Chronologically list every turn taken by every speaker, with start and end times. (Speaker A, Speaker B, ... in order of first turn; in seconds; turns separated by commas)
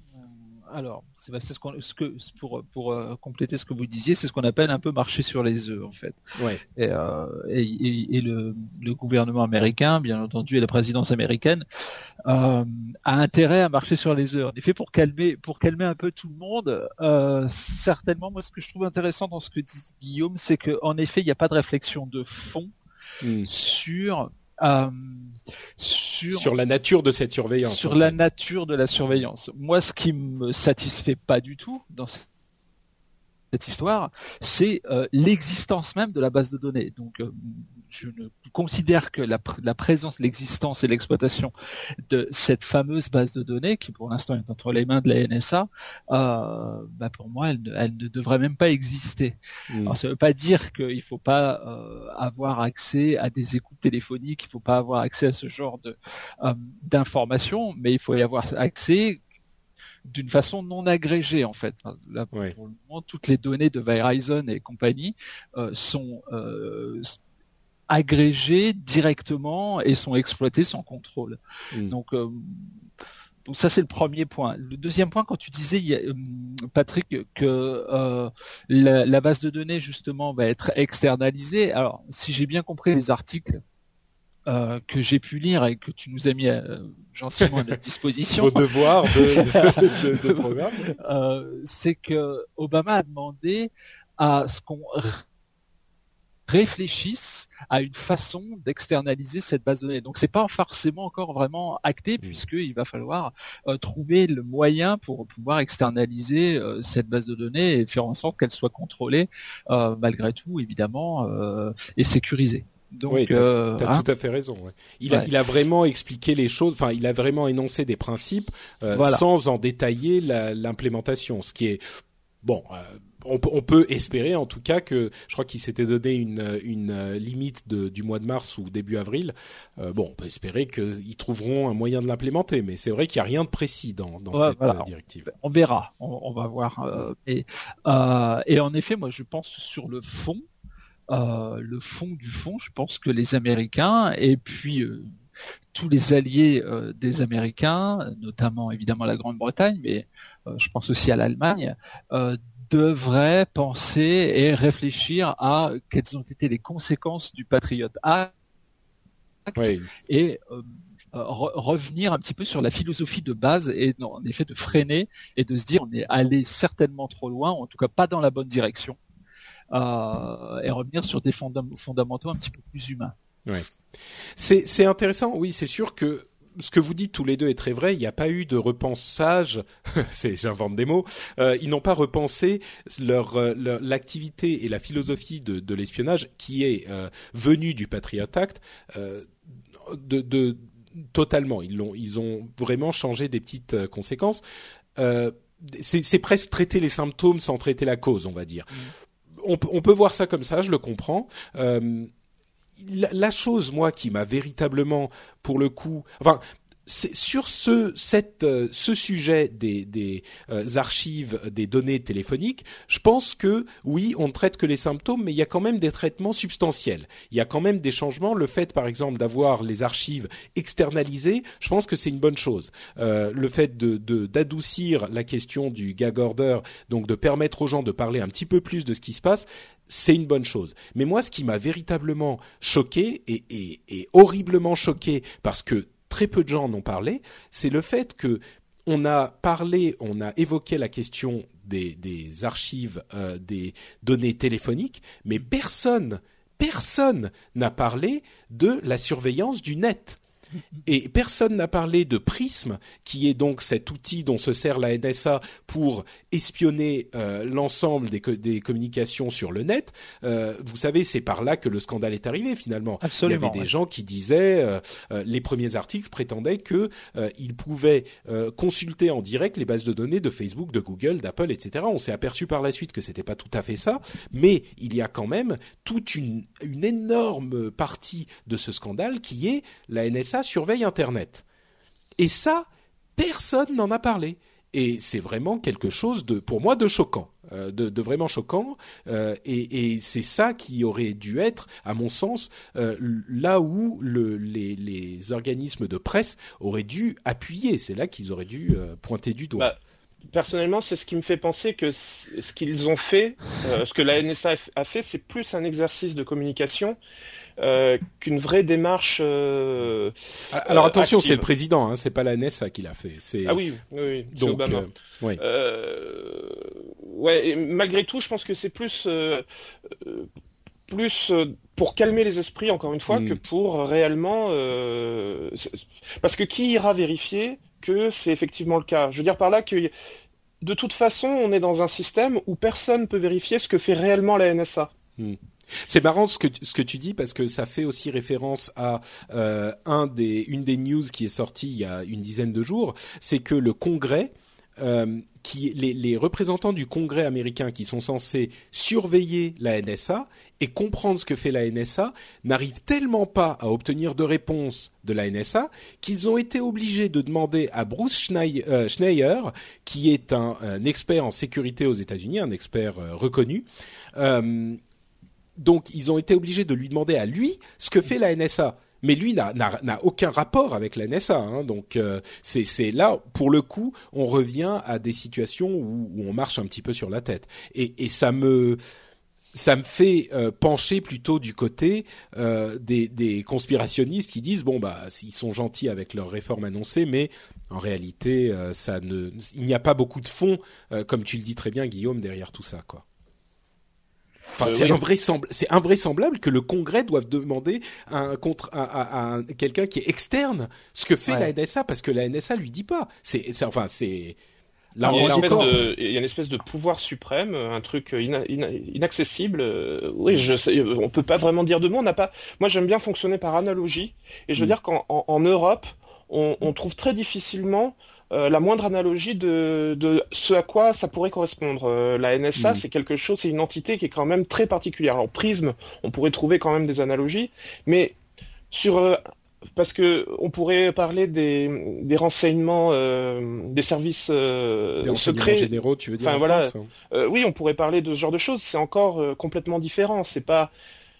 Speaker A: 0.2-6.2, Speaker A: 6.8-11.6, Speaker A: 12.2-22.7, Speaker B: 23.2-23.5, Speaker A: 23.4-26.5, Speaker B: 26.3-28.2, Speaker A: 27.6-32.2, Speaker A: 33.5-41.5, Speaker A: 42.1-59.2, Speaker B: 49.7-50.0, Speaker A: 60.0-67.2, Speaker A: 67.9-72.8, Speaker A: 73.5-83.6, Speaker A: 84.5-95.2, Speaker B: 88.3-90.9, Speaker A: 96.5-114.0, Speaker B: 113.1-121.8, Speaker A: 118.9-119.2, Speaker B: 122.4-135.3, Speaker A: 134.3-140.4, Speaker A: 141.1-145.1, Speaker A: 145.7-158.3, Speaker A: 159.5-169.0, Speaker B: 159.6-159.9, Speaker A: 169.7-173.1, Speaker B: 174.3-194.4, Speaker B: 195.0-202.1, Speaker B: 202.8-250.2, Speaker B: 250.8-281.4, Speaker A: 263.0-263.7, Speaker B: 282.2-299.7, Speaker C: 300.3-307.0, Speaker C: 307.6-311.4, Speaker B: 310.5-313.6, Speaker C: 313.4-320.3, Speaker B: 314.3-315.4, Speaker C: 320.9-329.9, Speaker B: 323.1-323.4, Speaker C: 330.6-334.9, Speaker B: 335.2-364.8, Speaker B: 365.6-378.8, Speaker B: 379.5-393.0, Speaker B: 394.6-404.4, Speaker B: 404.9-405.8, Speaker A: 405.0-405.8, Speaker C: 405.1-428.1, Speaker B: 422.6-422.8, Speaker C: 428.7-429.2, Speaker C: 429.8-440.7, Speaker B: 435.0-436.9